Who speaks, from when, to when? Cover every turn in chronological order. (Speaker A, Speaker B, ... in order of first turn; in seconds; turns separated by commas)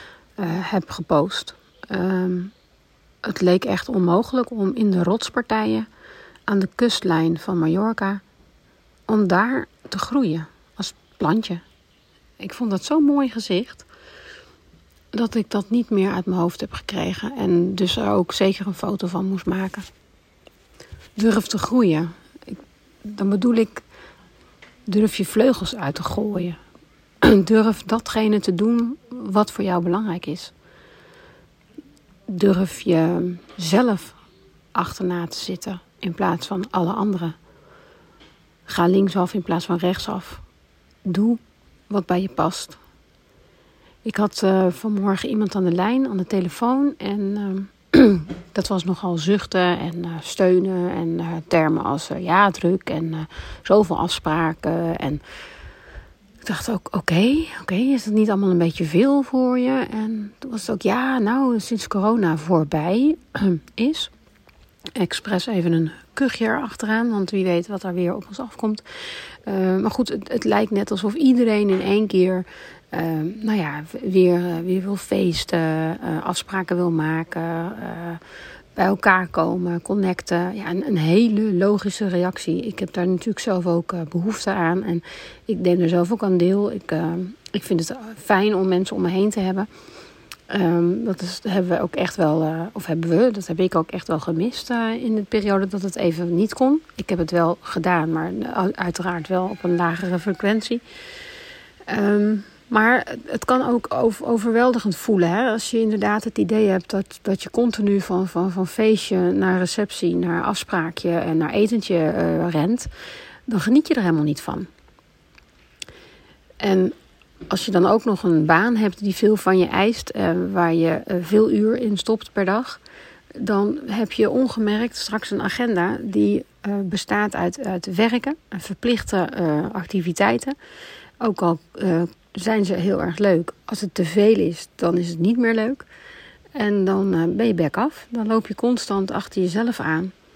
Speaker A: 0.3-2.5, Speaker A: 3.2-5.9, Speaker A: 6.5-8.2, Speaker A: 9.1-11.6, Speaker A: 12.4-13.8, Speaker A: 15.1-19.9, Speaker A: 21.1-23.8, Speaker A: 24.9-26.6, Speaker A: 27.2-30.5, Speaker A: 32.3-34.1, Speaker A: 34.7-37.4, Speaker A: 38.7-40.4, Speaker A: 41.0-42.8, Speaker A: 44.0-55.2, Speaker A: 56.4-64.1, Speaker A: 64.9-78.2, Speaker A: 78.8-89.7, Speaker A: 90.5-100.8, Speaker A: 101.9-112.9, Speaker A: 113.5-114.7, Speaker A: 116.6-116.9, Speaker A: 117.5-122.8, Speaker A: 123.3-130.6, Speaker A: 131.2-135.8, Speaker A: 136.5-140.1